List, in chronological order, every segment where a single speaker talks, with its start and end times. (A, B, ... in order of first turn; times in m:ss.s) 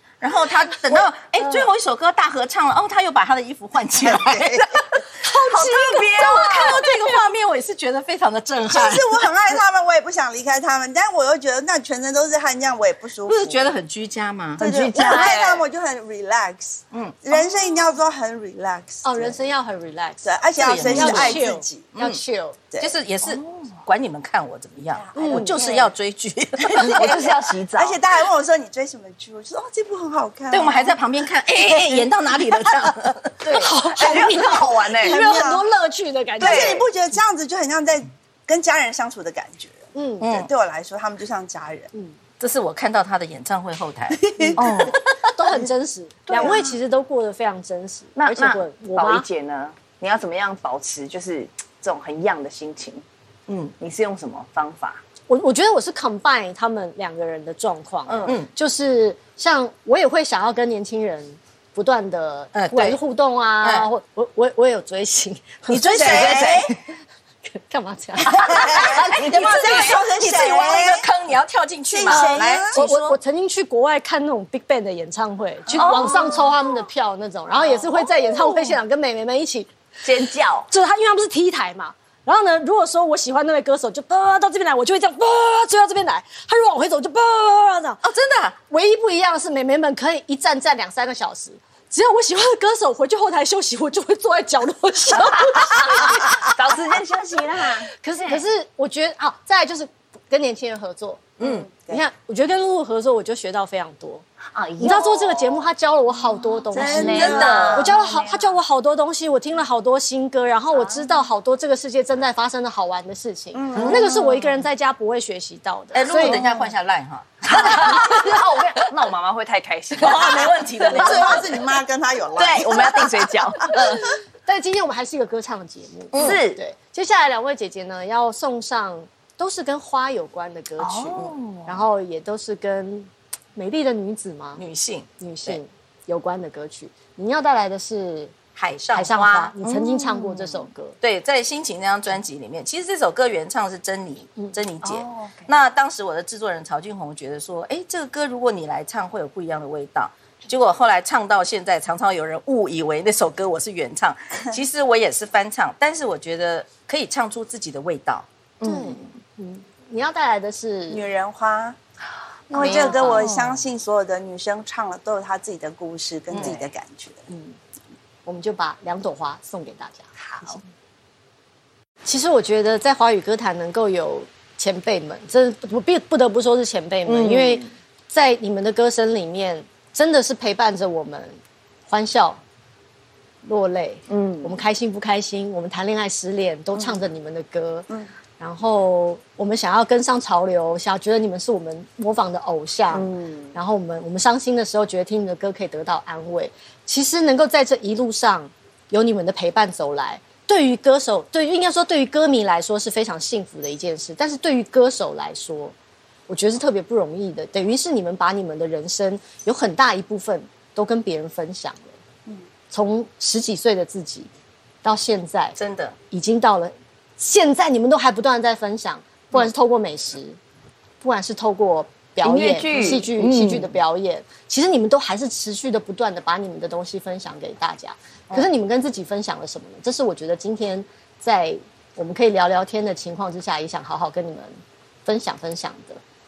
0:00.2-0:09.3 A
0:01.4-0:01.7 B
0:04.0-0:04.8 C
0:05.2-0:07.1 B
0:05.6-0:06.7 D
0:08.7-0:13.7 C
0:13.3-0:15.3 A
0:14.6-0:19.4 C
0:14.6-0:15.6 D
0:14.7-0:15.2 B
0:16.9-0:17.2 A
0:19.0-0:20.3 B
0:20.2-0:21.9 C
0:20.6-0:21.4 A
0:20.8-0:22.6 B
0:22.0-0:22.2 A
0:22.8-0:27.3 A
0:25.0-0:25.7 C
0:25.2-0:25.5 B
0:25.3-0:25.9 D
0:26.7-0:31.0 C
0:26.8-0:28.0 D
0:30.5-0:33.7 A
0:31.5-0:33.0 C
0:33.4-0:36.8 B
0:33.6-0:35.2 D
0:34.0-0:35.7 C
0:36.4-0:41.9 C
0:36.4-0:36.8 D
0:39.9-0:40.2 B
0:40.2-0:40.5 A
0:42.4-0:45.1 A
0:44.2-0:44.9 C
0:44.6-0:45.0 D
0:45.3-0:49.2 B
0:46.3-0:46.7 D
0:46.3-0:46.7 C
0:48.2-0:53.0 D
0:53.5-0:53.7 A
0:53.8-0:55.0 D
0:55.3-1:06.4 B
0:58.1-0:58.5 A
1:02.6-1:03.0 A
1:03.6-1:03.9 A
1:05.7-1:06.7 A
1:06.0-1:06.8 C
1:06.0-1:06.8 D
1:07.5-1:08.9 B
1:08.3-1:11.1 C
1:08.7-1:09.9 D
1:08.8-1:13.2 A
1:11.9-1:12.8 C
1:12.1-1:19.7 B
1:15.7-1:16.6 D
1:17.7-1:18.1 D
1:20.0-1:20.7 D
1:20.7-1:28.0 B
1:28.0-1:28.6 A
1:28.7-1:36.3 B
1:35.7-1:38.4 D
1:38.0-1:44.3 B
1:41.4-1:41.7 A
1:41.4-1:42.0 C
1:44.5-1:45.7 D
1:44.8-1:56.4 B
1:46.5-1:48.6 D
1:46.7-1:47.9 C
1:46.8-1:47.9 A
1:50.8-1:51.1 D
1:53.5-1:54.1 C
1:53.7-1:54.6 D
1:55.9-1:58.7 A
1:56.1-1:56.7 D
1:57.5-2:01.6 D
1:57.6-1:58.3 B
2:00.0-2:01.6 A
2:00.9-2:03.1 C
2:02.4-2:04.2 D
2:04.5-2:14.6 B
2:06.1-2:06.4 A
2:06.2-2:06.6 D
2:10.8-2:11.9 D
2:14.6-2:15.6 A
2:15.2-2:18.3 B
2:18.6-2:19.6 A
2:18.9-2:21.0 B
2:19.7-2:20.6 D
2:21.0-2:38.3 A
2:24.8-2:25.5 D
2:38.6-2:39.1 D
2:38.6-2:41.0 B
2:40.9-2:41.8 C
2:42.5-2:43.3 B
2:42.5-2:47.3 C
2:42.6-2:43.6 D
2:42.6-2:42.9 A
2:46.3-2:46.6 A
2:47.3-2:47.6 B
2:48.2-2:50.6 B
2:52.0-3:02.4 B
2:57.1-2:57.7 D
3:03.4-3:07.9 B
3:04.1-3:04.6 D
3:08.4-3:25.7 B
3:12.9-3:13.6 D
3:26.3-3:32.0 B
3:32.7-3:34.3 B
3:34.8-3:35.6 B
3:35.6-3:36.0 A
3:36.1-3:40.4 B
3:41.0-3:56.0 B
3:42.2-3:43.8 D